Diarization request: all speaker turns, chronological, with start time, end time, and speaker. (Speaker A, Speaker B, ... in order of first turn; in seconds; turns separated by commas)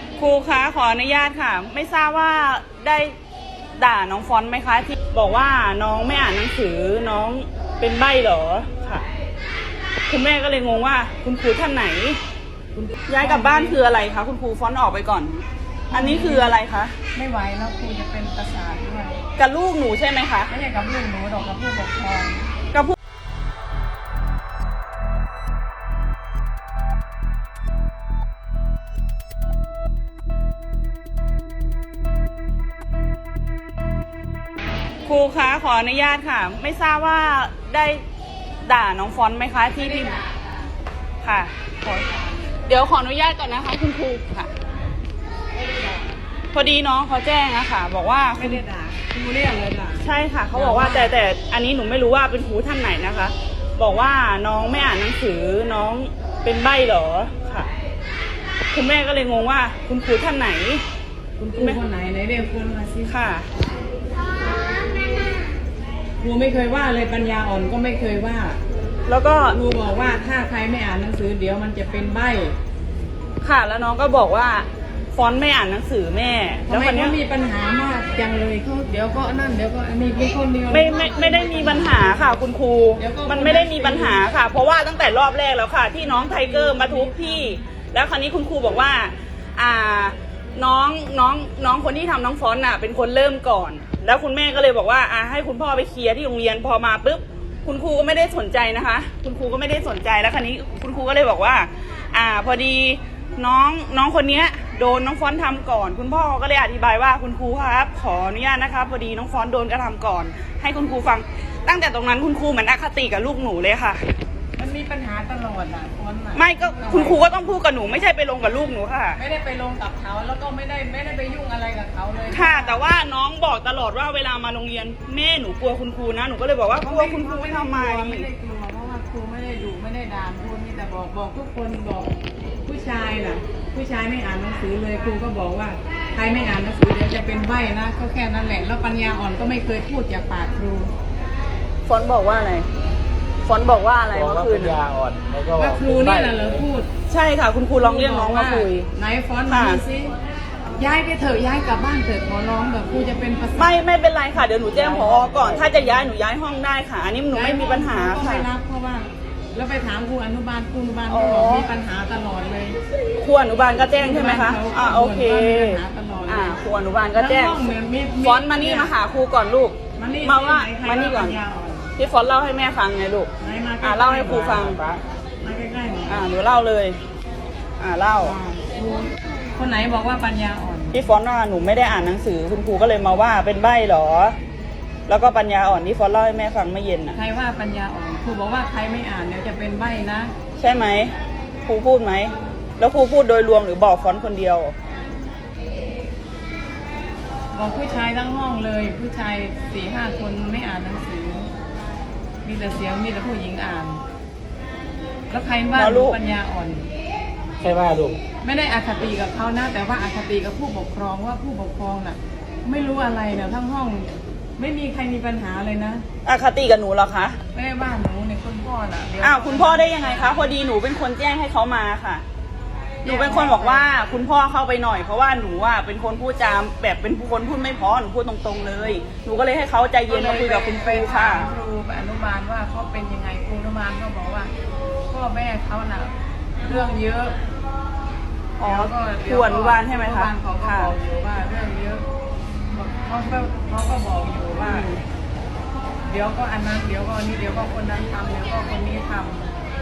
Speaker A: 0.2-3.1, Speaker A: 3.8-9.0, Speaker A: 10.1-12.2, Speaker B: 12.7-13.8, Speaker A: 13.1-16.9, Speaker B: 15.9-16.6, Speaker B: 17.1-19.2, Speaker A: 19.4-20.5, Speaker B: 20.5-22.5, Speaker A: 35.0-38.0, Speaker A: 38.6-40.2, Speaker A: 41.2-41.5, Speaker B: 41.8-42.3, Speaker A: 42.6-44.5, Speaker A: 46.5-48.6, Speaker B: 48.4-51.2, Speaker A: 50.0-57.7, Speaker A: 58.7-60.8, Speaker B: 61.4-63.1, Speaker A: 63.0-63.5, Speaker B: 66.2-68.6, Speaker A: 69.1-69.6, Speaker B: 69.5-72.5, Speaker A: 73.4-77.2, Speaker B: 76.7-82.4, Speaker A: 80.7-114.0, Speaker B: 83.0-84.2, Speaker B: 86.0-87.6, Speaker B: 114.5-117.5, Speaker A: 116.3-119.2, Speaker B: 119.2-122.8, Speaker A: 122.3-128.3, Speaker B: 126.7-132.1, Speaker B: 132.6-140.9, Speaker A: 141.8-142.7, Speaker A: 143.4-144.8, Speaker C: 144.1-146.6, Speaker B: 145.6-146.9, Speaker A: 147.1-148.9, Speaker B: 147.8-150.1, Speaker A: 149.5-149.8, Speaker B: 150.7-153.7, Speaker A: 153.6-158.5, Speaker B: 154.8-155.7, Speaker B: 157.3-162.8, Speaker A: 161.1-161.7, Speaker A: 163.1-167.7, Speaker B: 163.9-166.6, Speaker B: 167.1-168.9, Speaker A: 168.2-171.4, Speaker B: 169.9-171.9, Speaker A: 172.0-173.3, Speaker B: 173.4-174.7, Speaker A: 173.8-174.8, Speaker C: 174.5-175.0, Speaker B: 175.4-176.3, Speaker A: 176.1-177.0, Speaker A: 177.8-178.3, Speaker B: 178.2-181.0, Speaker A: 180.9-184.3, Speaker A: 185.1-187.2, Speaker B: 187.1-190.3, Speaker A: 190.6-191.1, Speaker A: 191.7-194.7, Speaker B: 197.5-201.5, Speaker B: 202.4-204.0, Speaker B: 205.3-206.9, Speaker A: 205.7-206.2, Speaker C: 207.6-208.2, Speaker B: 208.4-216.0, Speaker A: 216.2-217.4, Speaker B: 217.5-220.5, Speaker A: 219.2-222.2, Speaker B: 223.0-223.9, Speaker A: 223.0-231.5, Speaker B: 230.1-234.5, Speaker B: 235.1-237.3, Speaker A: 238.6-240.9, Speaker B: 238.6-242.0, Speaker B: 242.7-244.9, Speaker A: 244.6-245.0, Speaker B: 246.1-249.5